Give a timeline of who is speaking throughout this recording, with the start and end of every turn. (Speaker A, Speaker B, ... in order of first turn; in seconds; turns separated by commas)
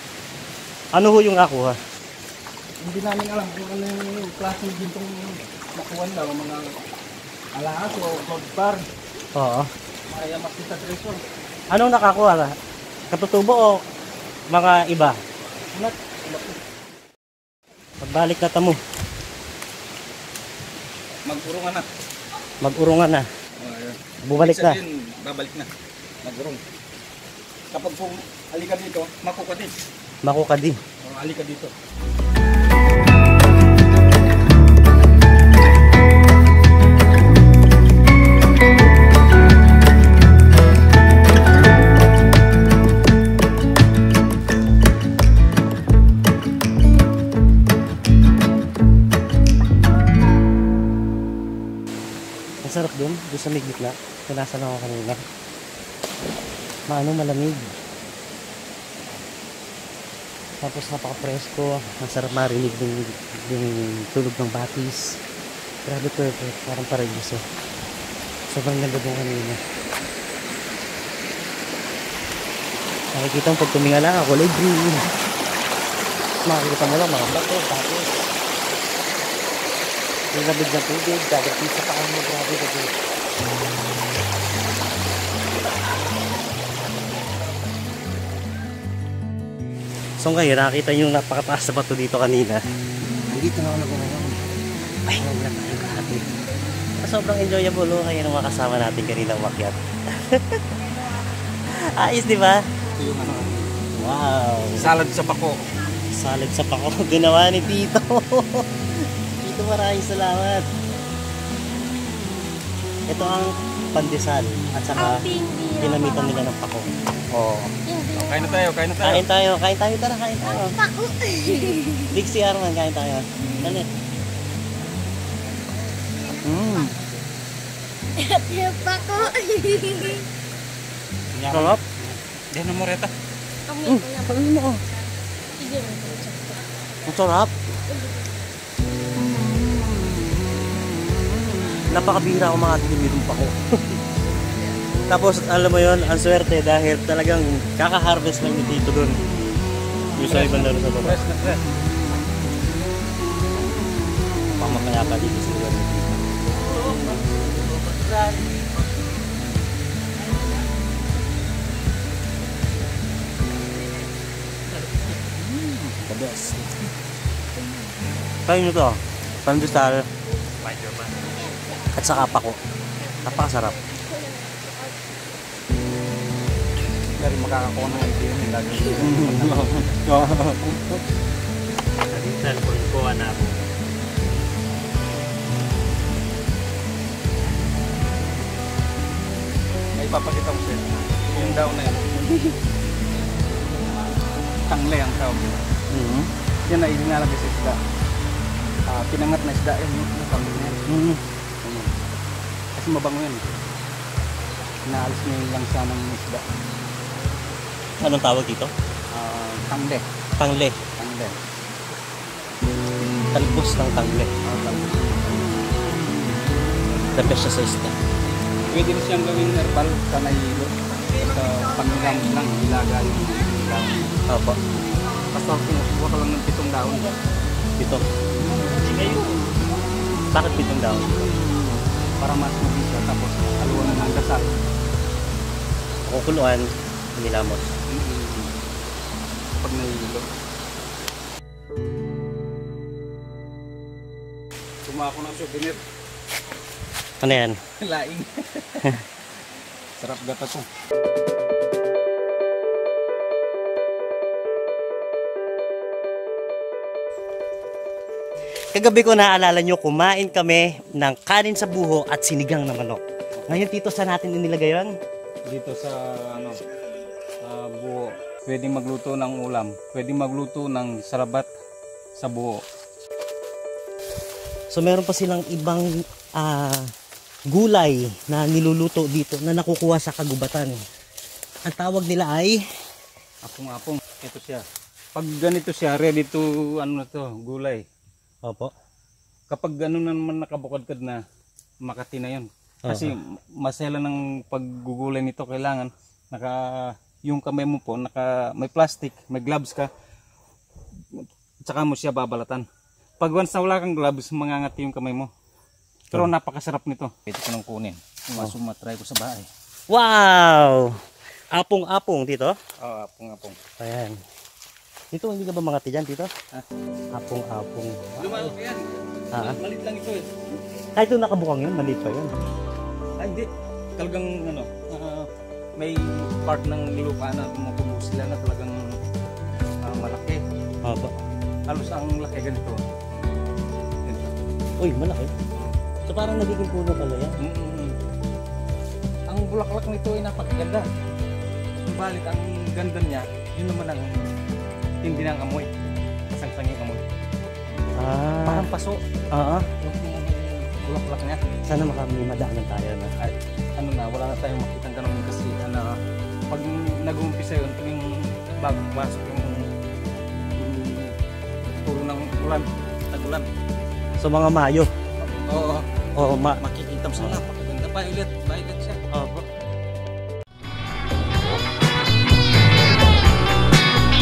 Speaker A: 0.9-1.8, Speaker B: 2.8-6.8, Speaker B: 7.5-8.8, Speaker A: 9.3-9.7, Speaker B: 10.1-11.2, Speaker A: 11.7-12.5, Speaker A: 13.1-13.8, Speaker A: 14.5-15.2, Speaker B: 15.7-16.6, Speaker A: 18.0-18.8, Speaker B: 21.2-21.9, Speaker A: 22.6-23.3, Speaker B: 23.5-25.7, Speaker A: 24.2-24.8, Speaker B: 26.2-26.6, Speaker B: 27.7-29.9, Speaker A: 30.2-30.8, Speaker B: 31.0-31.7, Speaker A: 52.6-55.2, Speaker A: 56.9-57.7, Speaker A: 60.6-65.2, Speaker A: 65.8-67.4, Speaker A: 68.5-69.6, Speaker A: 73.1-75.1, Speaker A: 76.4-78.1, Speaker A: 80.3-82.9, Speaker A: 90.2-94.4, Speaker A: 95.1-96.3, Speaker A: 97.0-100.6, Speaker A: 101.7-102.6, Speaker B: 103.0-103.7, Speaker A: 103.9-104.9, Speaker B: 104.7-105.7, Speaker A: 106.1-110.7, Speaker A: 113.1-117.0, Speaker C: 115.0-116.5, Speaker B: 117.3-119.2, Speaker C: 117.8-118.6, Speaker A: 119.0-120.8, Speaker C: 120.4-122.2, Speaker A: 121.5-123.9, Speaker C: 126.2-126.5, Speaker A: 126.5-127.0, Speaker C: 128.2-130.3, Speaker B: 131.3-133.1, Speaker A: 131.5-131.8, Speaker C: 133.7-134.5, Speaker A: 133.9-134.8, Speaker C: 135.6-136.8, Speaker A: 137.1-137.5, Speaker C: 137.9-138.3, Speaker A: 141.8-144.0, Speaker A: 145.1-149.2, Speaker A: 150.2-151.2, Speaker B: 150.2-151.6, Speaker A: 154.6-158.8, Speaker B: 165.5-166.6, Speaker A: 168.5-170.1, Speaker A: 171.9-172.6, Speaker A: 173.2-173.8, Speaker C: 174.2-174.7, Speaker B: 177.2-180.6, Speaker A: 178.9-180.8, Speaker A: 182.1-183.7, Speaker B: 190.0-192.2, Speaker B: 194.7-195.6, Speaker A: 195.9-196.3, Speaker B: 196.7-197.8, Speaker B: 198.9-200.8, Speaker A: 200.9-201.2, Speaker B: 201.6-201.9, Speaker B: 202.7-203.4, Speaker B: 204.8-206.4, Speaker A: 208.0-208.7, Speaker B: 209.1-210.0, Speaker A: 210.4-210.8, Speaker B: 211.0-211.3, Speaker A: 213.3-214.3, Speaker B: 214.4-215.3, Speaker A: 217.1-218.0, Speaker B: 218.7-224.1, Speaker A: 224.3-224.6, Speaker B: 225.3-227.2, Speaker A: 227.8-228.1, Speaker B: 228.3-229.4, Speaker A: 230.3-231.3, Speaker B: 232.2-234.5, Speaker A: 236.1-237.7, Speaker B: 237.9-238.6, Speaker B: 239.6-240.3, Speaker B: 244.8-245.8, Speaker A: 247.2-247.6, Speaker B: 247.8-249.0, Speaker B: 250.0-250.7, Speaker A: 258.7-264.9, Speaker B: 265.5-266.6, Speaker B: 267.4-271.5, Speaker B: 272.2-272.6, Speaker A: 274.7-276.9, Speaker A: 277.5-280.8, Speaker A: 281.6-282.6, Speaker B: 283.4-284.6, Speaker B: 285.1-287.8, Speaker A: 288.4-288.7, Speaker B: 289.5-291.2, Speaker B: 291.8-299.9, Speaker A: 292.8-293.1, Speaker B: 301.1-302.6, Speaker B: 303.2-305.3, Speaker B: 306.1-309.5, Speaker A: 309.9-310.9, Speaker A: 311.5-312.6, Speaker B: 312.8-313.6, Speaker A: 313.8-314.2, Speaker A: 315.1-316.3, Speaker A: 317.1-318.5, Speaker B: 318.2-320.3, Speaker A: 320.9-322.3, Speaker B: 323.2-328.8, Speaker B: 329.8-330.4, Speaker A: 330.8-331.1, Speaker B: 331.7-332.8, Speaker B: 334.1-334.3, Speaker A: 334.8-335.3, Speaker A: 336.1-337.4, Speaker B: 337.4-337.9, Speaker B: 339.3-340.9, Speaker B: 341.8-344.3, Speaker B: 345.0-345.7, Speaker B: 346.3-347.0, Speaker A: 347.9-348.7, Speaker B: 348.4-349.0, Speaker A: 349.3-349.7, Speaker B: 349.8-351.4, Speaker A: 351.7-353.1, Speaker B: 353.2-359.7, Speaker B: 360.6-363.5, Speaker A: 364.2-364.9, Speaker B: 365.2-365.8, Speaker A: 366.1-366.6, Speaker B: 366.6-369.0, Speaker A: 369.1-369.5